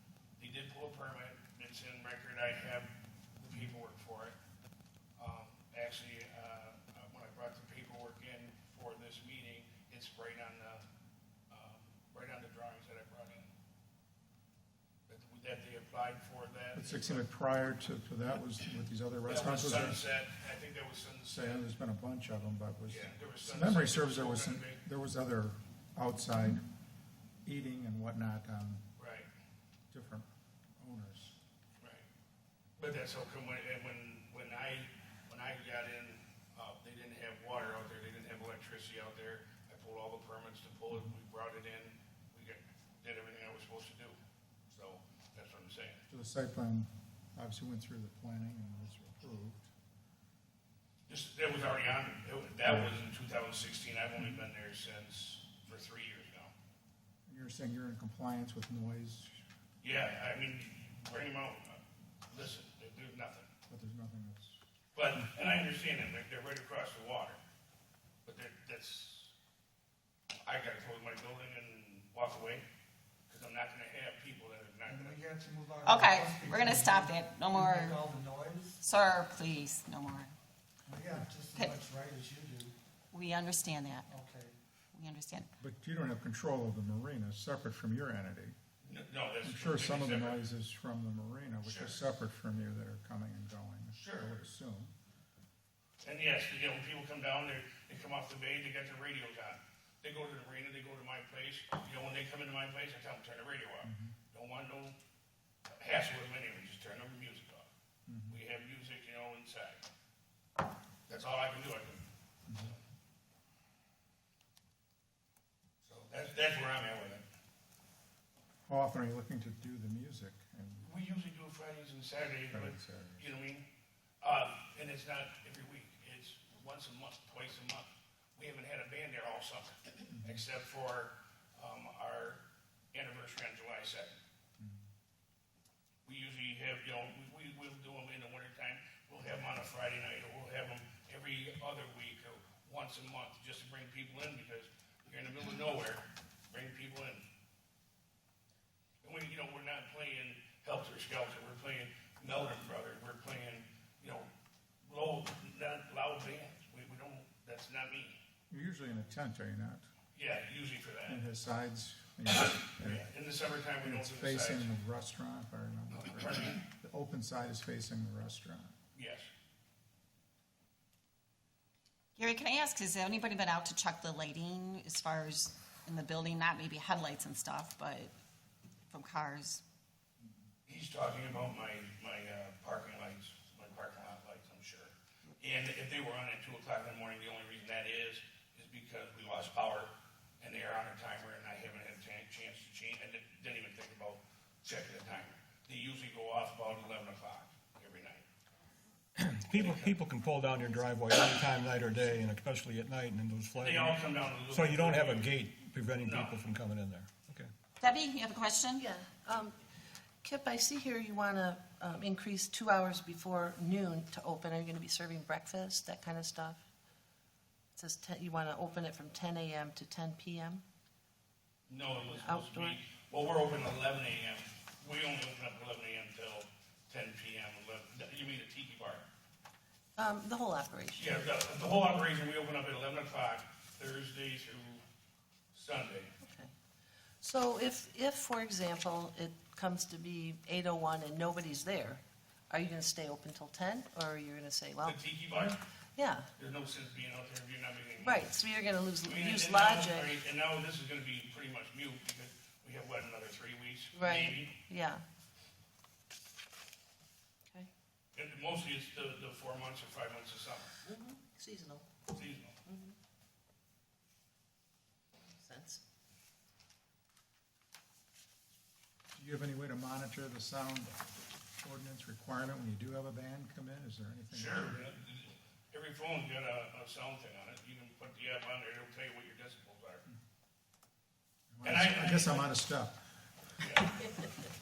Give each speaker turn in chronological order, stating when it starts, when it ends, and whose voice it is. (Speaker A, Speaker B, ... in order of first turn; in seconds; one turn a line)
Speaker A: 0.4-4.3
Speaker A: 5.2-10.8
Speaker A: 11.5-13.5
Speaker A: 15.1-17.2
Speaker B: 16.7-20.1
Speaker A: 19.3-21.7
Speaker B: 21.3-26.6
Speaker A: 22.9-24.8
Speaker B: 27.4-28.8
Speaker A: 29.0-29.3
Speaker B: 29.9-30.3
Speaker B: 30.8-31.4
Speaker A: 31.8-32.0
Speaker A: 32.8-46.0
Speaker B: 46.1-49.7
Speaker A: 51.1-56.5
Speaker B: 52.6-52.9
Speaker B: 57.3-59.4
Speaker A: 59.8-63.5
Speaker B: 63.7-64.6
Speaker A: 64.9-67.4
Speaker A: 68.2-69.3
Speaker A: 70.4-72.7
Speaker A: 73.3-75.2
Speaker C: 74.8-78.8
Speaker D: 75.8-78.0
Speaker D: 78.8-80.3
Speaker C: 80.8-82.7
Speaker D: 83.1-84.1
Speaker C: 84.1-84.5
Speaker D: 84.9-85.5
Speaker B: 85.6-88.5
Speaker A: 88.8-90.4
Speaker B: 89.4-94.9
Speaker A: 91.6-92.0
Speaker A: 93.9-94.3
Speaker A: 96.0-105.0
Speaker B: 103.8-104.1
Speaker A: 105.8-107.7
Speaker B: 108.1-108.4
Speaker A: 108.3-109.8
Speaker A: 111.1-112.8
Speaker B: 112.5-112.7
Speaker A: 115.8-117.2
Speaker B: 118.7-120.9
Speaker A: 120.8-123.7
Speaker B: 122.5-123.3
Speaker A: 124.2-132.4
Speaker B: 130.1-130.4
Speaker A: 132.9-134.2
Speaker A: 136.0-147.2
Speaker A: 149.0-154.3
Speaker A: 154.9-158.2
Speaker B: 158.5-159.9
Speaker A: 160.1-161.2
Speaker B: 161.1-163.1
Speaker A: 162.8-164.7
Speaker B: 163.8-168.7
Speaker A: 165.9-166.6
Speaker A: 168.9-169.3
Speaker D: 172.2-178.1
Speaker D: 178.9-179.6
Speaker A: 180.7-198.2
Speaker E: 199.2-207.5
Speaker A: 199.5-199.9
Speaker A: 203.6-205.3
Speaker A: 206.0-206.4
Speaker D: 207.8-208.8
Speaker F: 208.8-209.5
Speaker F: 210.2-216.6
Speaker F: 217.8-220.6
Speaker A: 221.7-229.1
Speaker F: 222.1-222.8
Speaker F: 230.0-231.2
Speaker A: 231.0-234.8
Speaker A: 235.5-236.1
Speaker F: 236.2-236.5
Speaker F: 237.2-245.2
Speaker A: 244.8-245.6
Speaker F: 245.9-246.3
Speaker A: 246.3-248.3
Speaker F: 248.0-250.2
Speaker A: 249.0-254.5
Speaker F: 253.9-255.0
Speaker A: 258.1-260.8
Speaker F: 260.8-261.9
Speaker A: 262.1-262.6
Speaker F: 262.6-262.9
Speaker F: 265.3-265.8
Speaker B: 269.1-274.9
Speaker A: 274.3-280.1
Speaker B: 281.5-283.0
Speaker A: 281.6-282.5
Speaker A: 283.6-284.1